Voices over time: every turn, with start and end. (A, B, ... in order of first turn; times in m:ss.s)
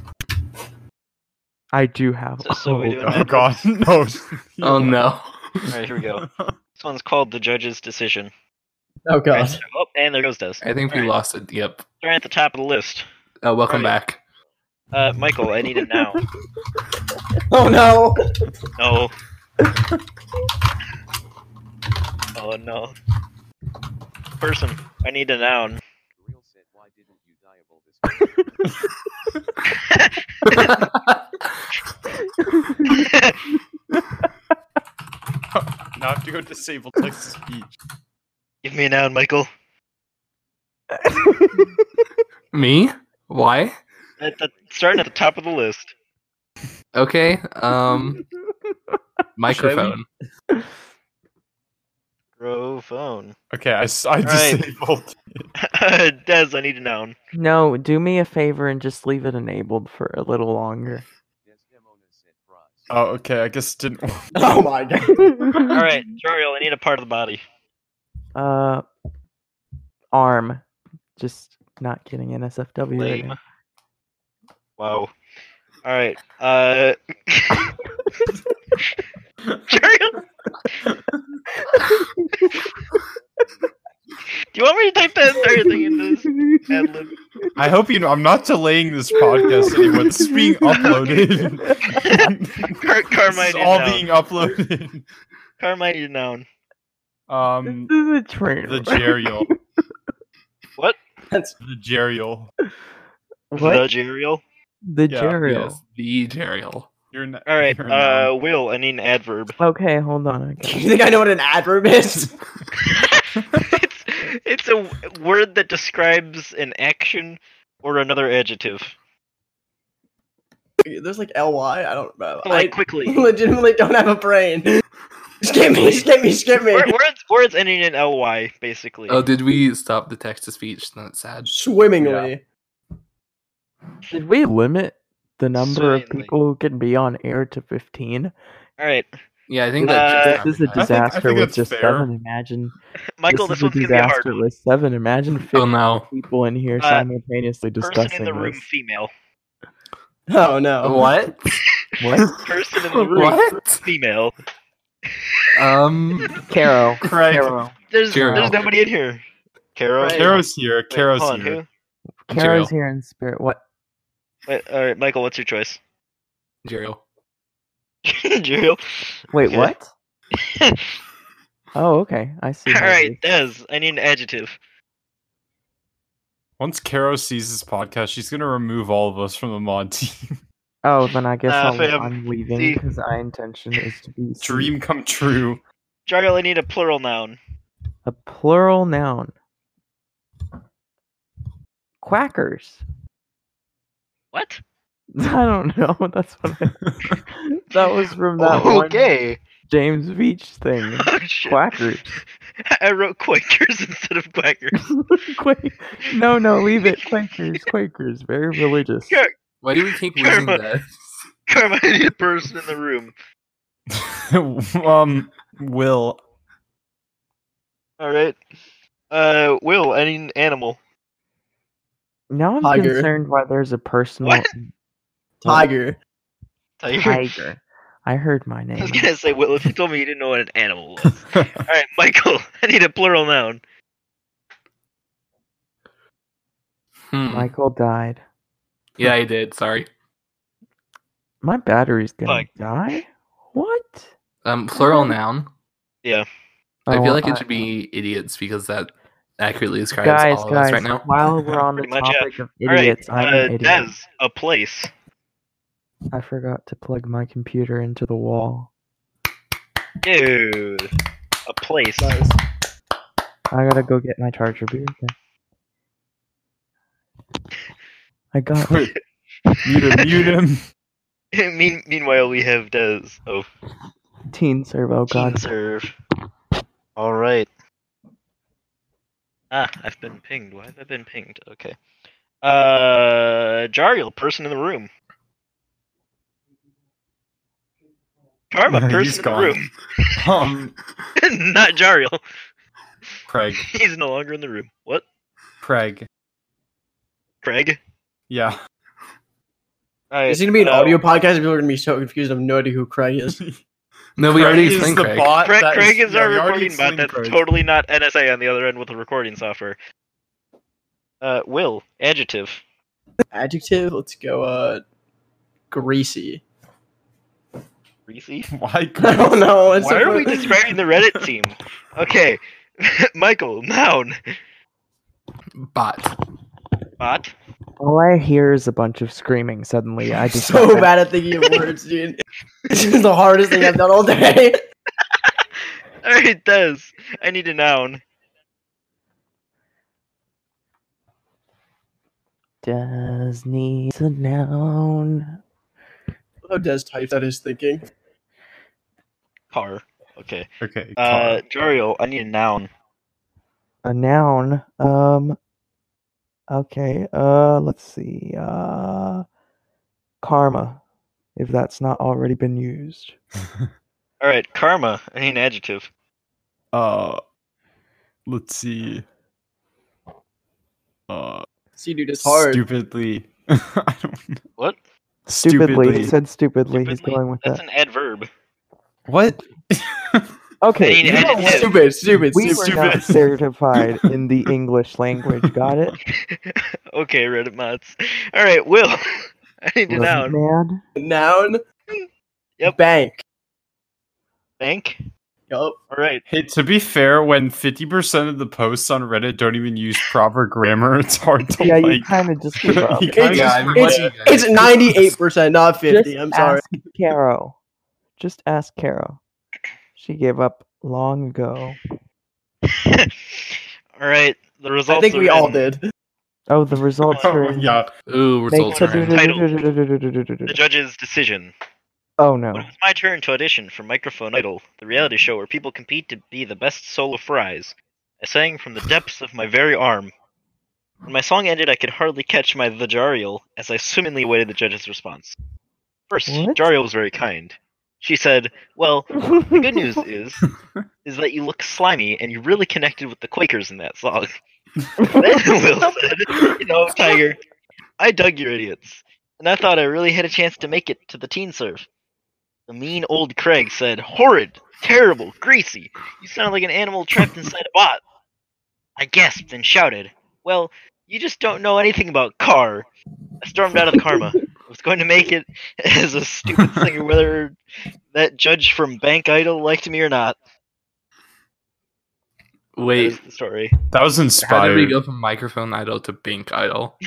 0:01.7-0:03.2 A
0:02.4-0:03.6 B
0:03.0-0:05.0 C
0:04.6-0:05.6 D
0:05.7-0:06.2 B
0:06.2-0:06.5 C
0:06.8-0:08.3 B
0:09.1-0:09.6 E
0:09.3-0:11.1 B
0:10.6-0:11.8 D
0:12.0-0:13.0 B
0:13.4-0:14.2 D
0:13.7-0:14.0 B
0:14.9-0:16.2 B
0:17.5-0:18.3 E
0:18.8-0:19.1 B
0:22.3-0:22.9 B
0:24.4-0:25.8 B
0:26.3-0:28.0 F
0:29.9-0:30.8 B
0:30.5-0:31.2 D
0:32.5-0:32.9 A
0:32.9-0:33.4 B
0:35.5-0:37.7 C
0:38.6-0:39.5 B
0:41.0-0:41.7 A
0:42.5-0:43.8 D
0:44.2-0:45.9 B
0:46.9-0:48.2 D
0:47.9-0:48.2 A
0:49.4-0:50.0 D
0:49.5-0:50.0 B
0:52.4-0:53.3 B
0:53.5-0:55.4 C
0:54.2-0:54.7 B
0:55.6-0:57.1 B
0:57.3-1:01.0 A
1:01.7-1:02.6 F
1:02.9-1:04.2 C
1:04.3-1:05.4 E
1:05.7-1:07.4 B
1:08.3-1:08.8 A
1:10.1-1:10.6 A
1:11.2-1:13.4 A
1:12.9-1:13.4 B
1:14.8-1:15.1 B
1:15.8-1:17.7 B
1:19.7-1:20.2 B
1:21.7-1:22.2 A
1:24.5-1:27.1 B
1:25.4-1:26.7 A
1:27.6-1:35.0 C
1:29.1-1:32.0 A
1:30.9-1:31.2 B
1:32.0-1:34.1 B
1:35.6-1:36.5 B
1:37.3-1:37.9 C
1:37.7-1:39.6 A
1:38.6-1:39.5 C
1:41.6-1:42.5 C
1:43.5-1:43.8 A
1:43.6-1:44.4 B
1:44.9-1:45.8 A
1:45.1-1:45.4 C
1:45.4-1:46.9 D
1:47.1-1:48.3 C
1:47.5-1:49.6 B
1:49.6-1:51.0 A
1:50.6-1:52.3 E
1:52.9-1:59.0 B
2:00.8-2:04.8 E
2:02.4-2:03.2 B
2:05.4-2:06.9 E
2:05.8-2:06.1 B
2:06.7-2:09.2 B
2:09.1-2:11.5 D
2:11.4-2:12.4 E
2:12.0-2:12.3 C
2:14.1-2:18.3 A
2:15.5-2:16.3 B
2:18.8-2:19.1 B
2:19.5-2:20.9 D
2:19.8-2:22.7 A
2:19.8-2:20.4 B
2:20.8-2:22.1 C
2:23.2-2:24.4 B
2:23.3-2:28.6 A
2:25.5-2:26.0 D
2:26.8-2:27.1 B
2:27.8-2:29.1 B
2:30.3-2:31.0 E
2:30.8-2:31.4 D
2:32.0-2:32.3 A
2:32.4-2:34.4 B
2:32.9-2:33.8 D
2:35.6-2:36.3 D
2:36.5-2:37.7 A
2:37.1-2:37.4 B
2:37.1-2:37.5 C
2:37.9-2:39.2 B
2:38.1-2:38.7 D
2:38.3-2:38.6 A
2:39.8-2:41.7 B
2:40.0-2:40.3 E
2:40.1-2:41.6 C
2:42.3-2:43.6 A
2:42.3-2:42.7 D
2:44.5-2:45.8 B
2:46.6-2:47.0 D
2:48.1-2:49.7 B
2:49.3-2:49.9 A
2:51.7-2:53.2 A
2:52.7-2:54.6 B
2:56.6-3:00.3 C
3:00.8-3:04.7 A
3:01.5-3:02.8 B
3:04.4-3:05.6 C
3:06.1-3:07.4 B
3:08.0-3:09.3 A
3:12.0-3:12.8 A
3:14.3-3:14.6 B
3:15.2-3:19.0 A
3:16.8-3:17.1 C
3:18.4-3:19.4 B
3:19.7-3:22.0 A
3:21.0-3:24.9 B
3:24.8-3:29.2 A
3:29.6-3:31.2 D
3:30.1-3:30.6 B
3:31.5-3:33.1 B
3:34.0-3:36.2 C
3:38.0-3:38.4 B
3:39.1-3:40.8 B
3:42.3-3:44.7 A
3:42.6-3:43.1 E
3:44.2-3:44.5 B
3:45.4-3:46.0 E
3:46.8-3:47.3 B
3:47.0-3:49.1 A
3:48.8-3:53.6 B
3:57.1-3:57.5 D
3:57.3-3:58.2 A
3:59.0-3:59.9 D
4:01.4-4:04.1 A
4:04.4-4:05.5 D
4:04.7-4:05.1 A
4:06.9-4:07.4 A
4:06.9-4:11.0 D
4:10.0-4:13.9 A
4:11.8-4:14.9 B
4:16.1-4:18.7 A
4:20.0-4:20.9 B
4:21.4-4:22.1 B
4:22.0-4:22.4 E
4:23.5-4:25.1 A
4:28.3-4:28.9 A
4:28.6-4:28.9 C
4:29.6-4:30.6 C
4:31.3-4:33.5 B
4:34.3-4:35.5 A
4:35.1-4:35.9 B
4:37.0-4:37.5 B
4:39.5-4:41.8 B
4:42.4-4:44.9 B
4:48.5-4:50.1 B
4:48.7-4:49.6 C
4:50.2-4:50.7 C
4:51.2-4:52.2 B
4:53.3-4:53.7 C
4:53.7-4:55.0 B
4:55.6-4:56.1 C
4:57.4-4:57.8 B
5:00.1-5:01.0 B
5:00.3-5:03.4 E
5:03.3-5:03.6 C
5:04.2-5:05.3 D
5:04.3-5:07.4 C
5:05.4-5:09.8 B
5:11.2-5:12.6 B
5:13.3-5:14.8 E
5:15.7-5:16.4 E
5:18.1-5:18.5 B
5:18.5-5:19.8 C
5:19.0-5:20.4 E
5:19.8-5:24.2 B
5:25.6-5:26.1 D
5:27.0-5:27.3 B
5:27.8-5:30.9 A
5:30.3-5:34.6 E
5:36.0-5:38.0 B
5:42.6-5:45.4 A
5:46.4-5:47.8 E
5:49.5-5:52.7 B
5:50.6-5:51.4 C
5:53.8-5:55.4 A
5:56.5-5:59.2 A
6:00.2-6:00.8 A
6:01.3-6:03.2 A
6:04.2-6:05.9 B
6:06.7-6:07.2 C
6:08.3-6:09.0 C
6:11.1-6:11.5 C
6:11.8-6:12.6 E
6:12.2-6:14.4 C
6:15.3-6:16.1 C
6:15.4-6:17.6 A
6:16.7-6:18.3 B
6:19.1-6:20.2 C
6:20.6-6:21.7 A
6:20.8-6:21.7 B
6:21.0-6:22.8 E
6:22.3-6:25.9 A
6:22.4-6:23.2 C
6:26.3-6:29.0 B
6:29.6-6:30.4 B
6:29.9-6:30.8 A
6:31.0-6:31.6 E
6:32.6-6:33.2 E
6:34.6-6:35.0 B
6:35.5-6:35.8 E
6:35.9-6:36.2 B
6:36.3-6:42.1 C
6:41.6-6:43.9 A
6:42.8-6:43.9 C
6:43.0-6:46.6 E
6:43.2-6:45.0 D
6:45.9-6:47.5 A
6:48.2-6:49.2 A
6:50.0-6:51.8 A
6:52.7-6:55.6 B
6:54.9-6:55.8 E
6:56.5-6:57.8 A
6:57.2-6:57.9 C
6:58.1-6:59.2 D
6:58.5-7:00.6 A
6:58.7-6:59.4 B
7:00.5-7:01.5 B
7:02.2-7:02.7 A
7:02.5-7:10.1 B
7:11.1-7:15.4 B
7:16.1-7:20.4 B
7:16.3-7:16.6 A
7:19.2-7:19.6 A
7:21.0-7:24.3 B
7:25.0-7:25.9 A
7:25.2-7:27.4 B
7:28.0-7:31.8 B
7:32.7-7:38.0 B
7:39.0-7:42.8 B
7:43.4-7:47.6 B
7:48.1-7:50.4 B
7:52.8-7:53.2 D
7:52.9-7:53.7 B
7:53.9-7:55.0 C
7:54.4-7:56.9 D